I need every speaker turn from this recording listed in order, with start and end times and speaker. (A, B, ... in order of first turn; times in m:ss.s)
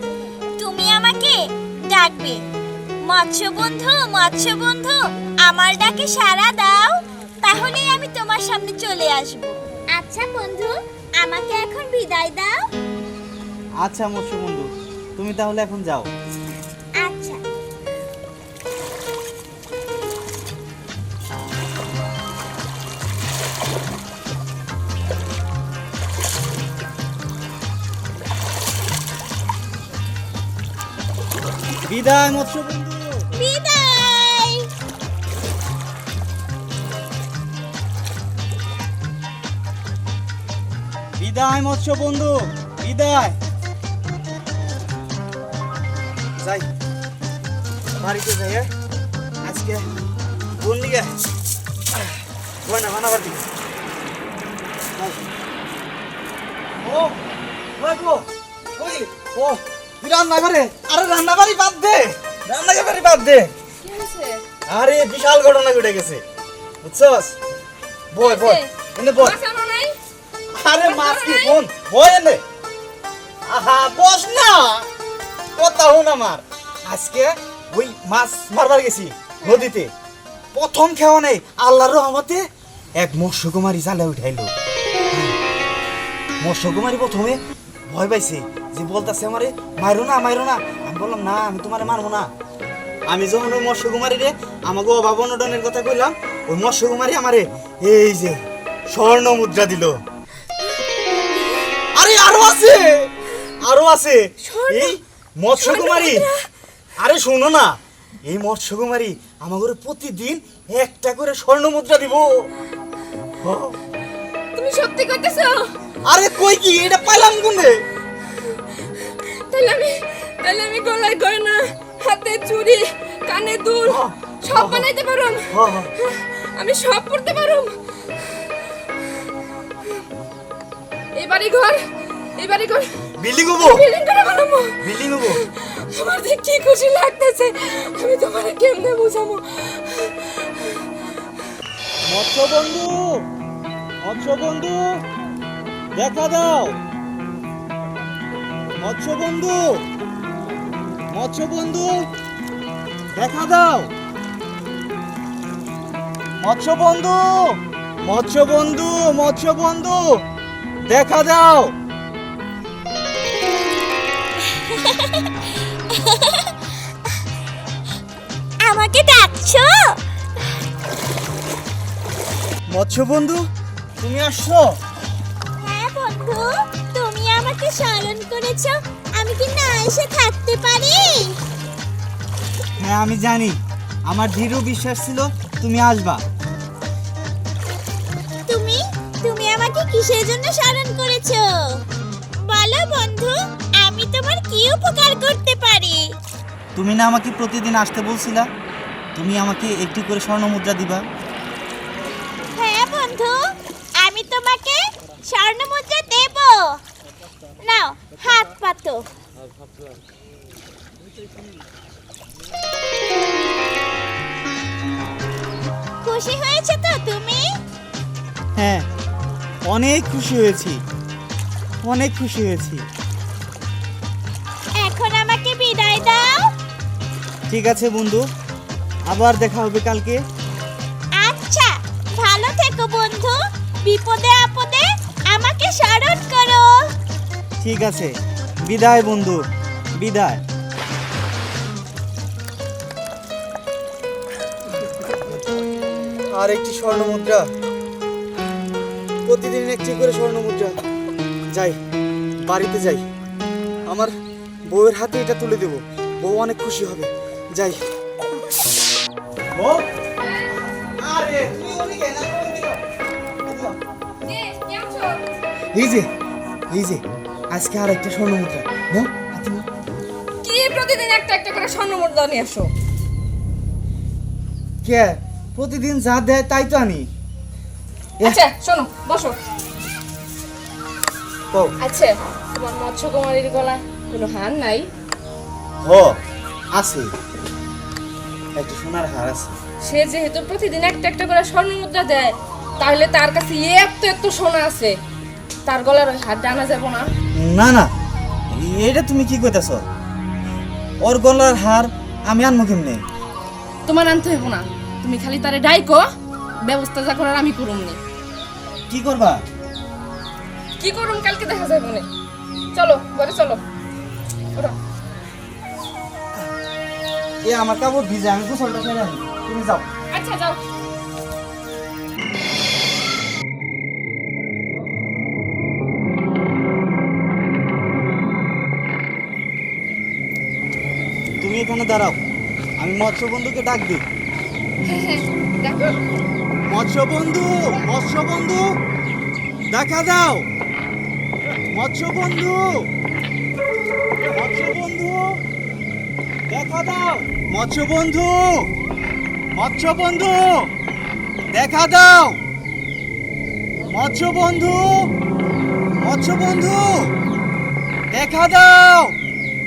0:00.6-0:02.4 A
0:03.0-0:12.6 A
0:13.8-0:16.1 B
0:17.0-0:17.4 A
0:31.9-0:33.2 B
0:33.3-0:34.7 A
0:41.2-0:43.4 B
0:46.4-0:46.7 B
0:48.0-0:48.7 B
0:49.4-0:49.9 B
0:50.6-0:51.1 B
0:52.7-0:53.5 B
0:55.0-0:55.2 B
0:56.8-0:57.2 B
0:57.8-0:58.3 B
0:58.8-1:03.5 B
1:03.8-1:04.4 C
1:04.7-1:06.2 B
1:06.8-1:07.4 B
1:08.1-1:09.4 B
1:08.2-1:10.0 C
1:10.5-1:12.4 B
1:10.8-1:11.6 C
1:13.5-1:14.9 B
1:15.6-1:19.9 B
1:20.5-1:22.4 B
1:23.0-1:24.5 B
1:25.1-1:25.4 B
1:26.4-1:32.3 B
1:33.1-1:40.0 B
1:41.9-1:46.3 B
1:44.4-1:44.8 C
1:45.6-1:46.1 C
1:47.0-1:52.5 B
1:53.4-1:53.8 B
1:54.6-1:55.7 C
1:56.0-1:57.8 B
1:59.1-2:07.8 C
2:03.8-2:04.9 B
2:05.5-2:05.9 B
2:11.2-2:13.0 C
2:13.2-2:13.9 B
2:13.6-2:20.8 C
2:14.8-2:15.4 B
2:22.1-2:23.3 B
2:24.0-2:25.0 B
2:26.0-2:26.8 B
2:28.7-2:29.8 B
2:31.1-2:32.1 B
2:33.2-2:33.9 B
2:36.4-2:40.2 B
2:40.9-2:41.7 B
2:44.5-2:45.3 A
2:45.9-2:46.5 A
2:48.6-2:50.0 A
2:52.7-2:53.5 B
2:54.0-2:54.8 B
2:55.6-3:01.4 A
3:02.8-3:06.2 B
3:08.5-3:11.8 A
3:12.4-3:16.2 A
3:16.8-3:18.5 B
3:19.2-3:21.0 B
3:22.6-3:23.4 A
3:24.0-3:26.8 A
3:27.6-3:29.0 A
3:36.0-3:37.5 A
3:38.6-3:38.9 B
3:39.7-3:40.8 B
3:41.8-3:42.9 B
3:44.8-3:46.5 A
3:47.5-3:48.2 B
3:49.1-3:50.2 B
3:51.2-3:56.8 A
3:57.6-3:58.1 B
3:58.6-3:59.4 B
4:00.0-4:00.4 B
4:06.3-4:07.5 B
4:09.3-4:10.7 B
4:11.5-4:11.8 B
4:12.5-4:13.0 B
4:13.9-4:14.1 B
4:14.7-4:17.8 B
4:19.5-4:19.8 B
4:20.2-4:20.5 C
4:21.0-4:22.8 B
4:23.4-4:23.8 B
4:24.2-4:25.2 C
4:25.7-4:26.1 B
4:26.7-4:29.7 B
4:30.4-4:32.7 C
4:34.8-4:37.1 B
4:38.2-4:39.4 C
4:41.8-4:44.9 C
4:45.8-4:46.2 B
4:46.7-4:47.1 B
4:48.6-4:49.6 B
4:49.8-4:55.0 C
4:55.7-4:57.1 C
4:57.4-4:57.9 B
4:58.5-4:59.8 B
5:01.0-5:03.0 B
5:03.9-5:06.1 C
5:06.7-5:08.0 C
5:08.9-5:09.4 B
5:10.8-5:12.1 C
5:12.7-5:13.6 C
5:17.4-5:19.9 B
5:20.1-5:20.6 C
5:31.4-5:32.2 B
5:32.8-5:34.0 B
5:34.8-5:36.0 C
5:36.7-5:38.8 B
5:39.7-5:40.5 B
5:41.7-5:42.9 B
5:44.2-5:45.4 B
5:46.5-5:48.7 B
5:49.5-5:50.7 B
5:51.5-5:52.4 B
5:53.8-5:55.1 B
5:56.0-5:57.1 B
5:58.1-5:59.2 B